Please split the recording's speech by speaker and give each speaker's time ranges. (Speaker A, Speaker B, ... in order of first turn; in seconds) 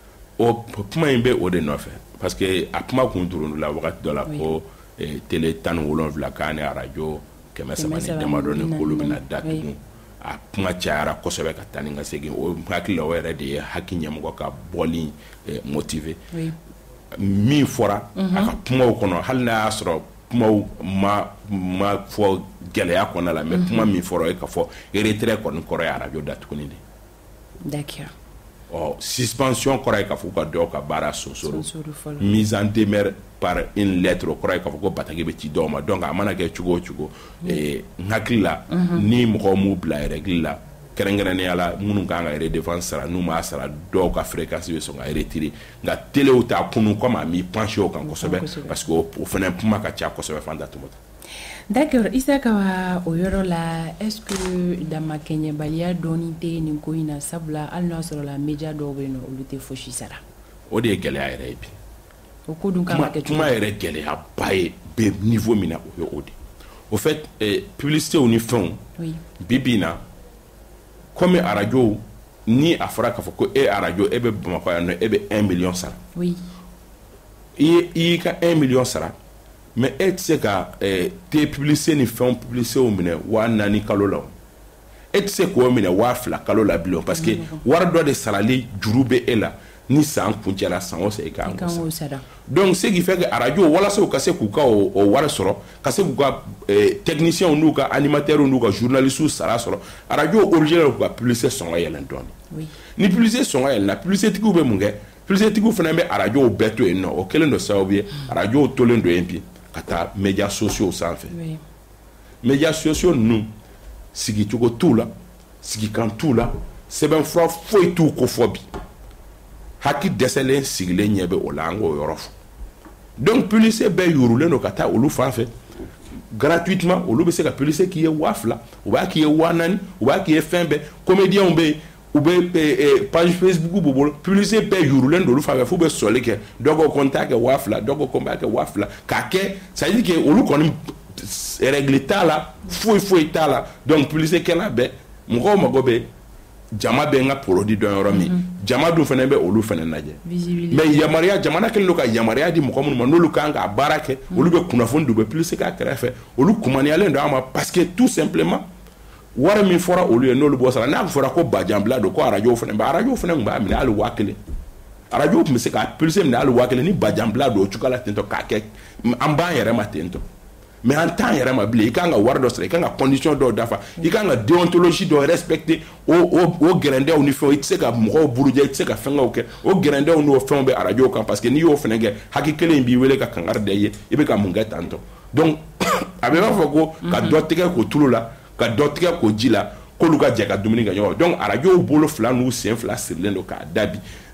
Speaker A: 0.4-16.2, 17.1-26.8, 28.7-31.7, 32.2-51.0, 60.7-61.7, 62.9-66.3, 66.9-68.8, 69.4-70.0, 71.2-76.0, 77.6-79.1, 79.8-84.3, 85.1-91.9, 92.5-102.3, 103.0-111.3, 112.4-113.5, 114.1-115.1, 115.6-118.7, 119.8-122.3, 123.2-125.5, 126.3-146.1, 146.8-158.7, 159.3-164.4, 165.1-170.2, 170.8-194.0
Speaker B: 7.8-9.7, 18.2-18.5, 23.5-23.9, 27.6-28.1, 31.5-32.3, 38.7-39.0, 48.0-48.7, 51.7-60.2, 62.5-63.5, 76.2-76.4, 87.2-87.6, 91.4-92.3, 111.3-111.6, 150.2-150.9, 187.1-187.4